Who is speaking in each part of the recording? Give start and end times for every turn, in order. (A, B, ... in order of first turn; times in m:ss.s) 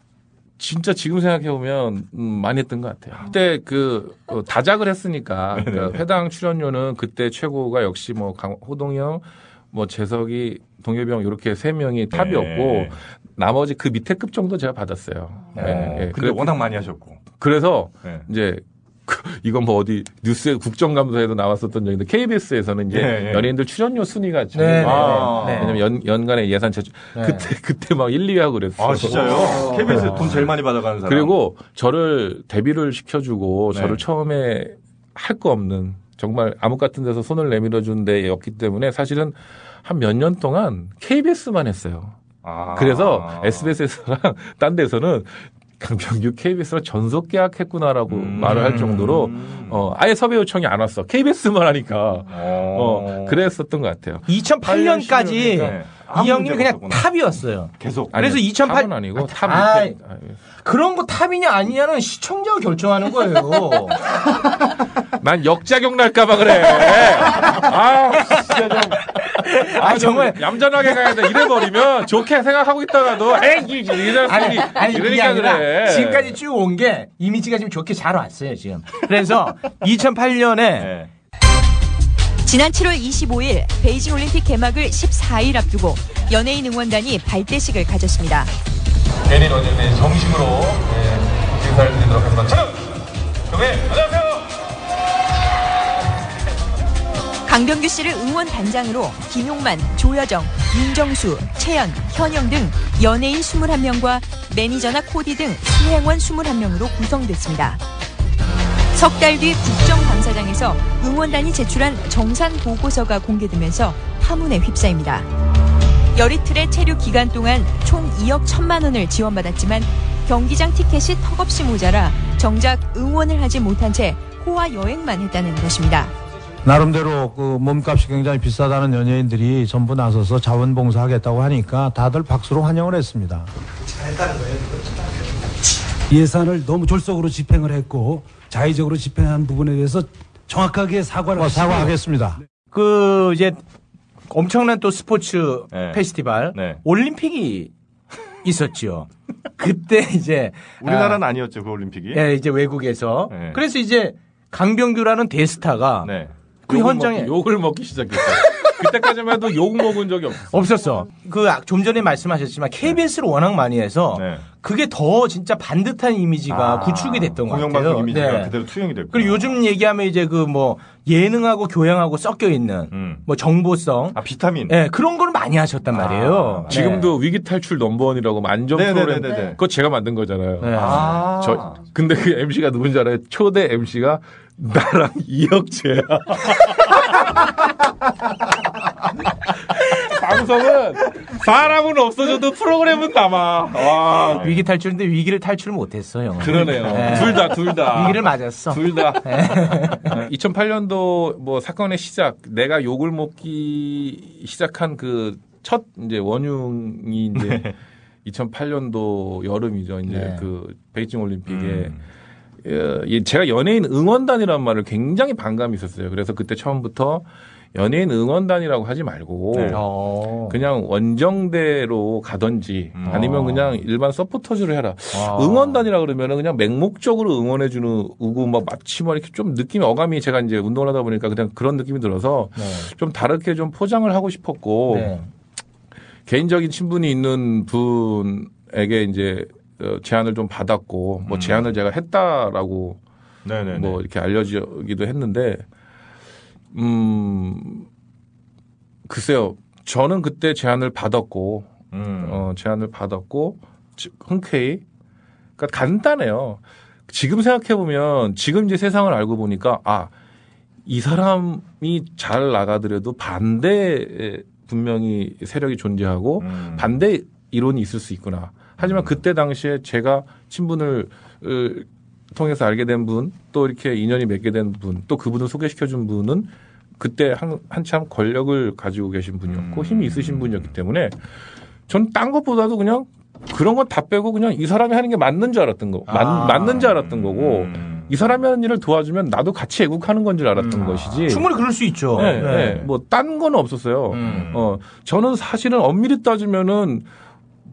0:00.6-0:16.7 A
0:05.5-0:06.0 B
0:12.1-0:12.9 B
0:15.5-0:17.2 B
0:15.6-0:15.9 C
0:17.2-0:30.4 A
0:22.9-0:23.5 B
0:24.5-0:25.8 C
0:24.8-0:25.8 B
0:27.1-0:27.5 C
0:28.8-0:31.4 B
0:29.2-0:30.3 C
0:31.0-0:42.2 A
0:33.7-0:34.0 B
0:42.4-0:43.7 B
0:42.7-0:55.8 A
0:48.1-0:49.9 B
0:52.3-0:53.4 B
0:54.2-1:00.0 C
0:55.6-0:57.1 B
0:57.8-0:58.1 B
0:58.1-1:00.4 A
1:00.6-1:04.0 C
1:05.2-1:09.2 A
1:08.3-1:11.3 C
1:09.8-1:16.4 A
1:14.0-1:20.9 C
1:20.8-1:21.1 B
1:22.4-1:28.5 D
1:29.2-1:32.9 A
1:33.5-1:34.4 A
1:37.4-1:47.8 D
1:48.9-1:55.3 D
1:56.1-2:06.1 D
2:06.6-2:13.5 E
2:16.1-2:22.3 F
2:21.4-2:22.3 E
2:22.7-2:23.6 C
2:24.3-2:27.7 C
2:25.7-2:26.0 B
2:26.5-2:26.8 B
2:28.4-2:31.2 C
2:30.8-2:32.2 B
2:32.1-2:36.1 C
2:33.3-2:33.6 B
2:36.0-2:36.3 B
2:36.7-2:40.9 A
2:36.7-2:37.3 C
2:40.5-2:48.6 C
2:44.1-2:44.4 B
2:46.5-2:49.5 B
2:49.1-2:57.1 C
2:52.9-2:53.2 B
2:54.1-2:54.8 B
2:55.9-2:56.7 B
2:56.7-3:07.0 A
2:58.7-2:59.6 B
3:00.6-3:01.2 C
3:00.7-3:01.8 B
3:10.0-3:14.5 A
3:14.3-3:20.1 C
3:16.4-3:27.7 A
3:16.5-3:17.3 B
3:27.4-3:27.7 B
3:28.2-3:31.9 A
3:30.0-3:30.5 C
3:31.5-3:32.0 B
3:32.6-3:39.8 A
3:39.5-3:39.8 B
3:39.7-3:40.6 C
3:40.5-3:55.2 A
3:42.9-3:43.8 B
3:45.1-3:45.8 C
3:52.6-3:52.9 C
3:54.9-3:55.3 C
3:56.3-4:03.0 A
4:01.3-4:01.7 B
4:03.4-4:04.0 B
4:03.7-4:05.6 A
4:06.7-4:07.9 A
4:09.1-4:14.8 A
4:11.9-4:12.5 B
4:15.6-4:20.1 A
4:20.8-4:41.2 A
4:26.4-4:27.0 B
4:28.8-4:29.2 B
4:39.5-4:40.7 B
4:41.9-4:51.5 A
4:46.1-4:46.9 C
4:46.9-4:48.4 B
4:50.6-4:51.2 B
4:50.7-4:52.8 C
4:52.1-4:57.0 A
4:52.5-4:52.8 B
4:54.1-4:54.6 C
4:54.2-4:54.6 B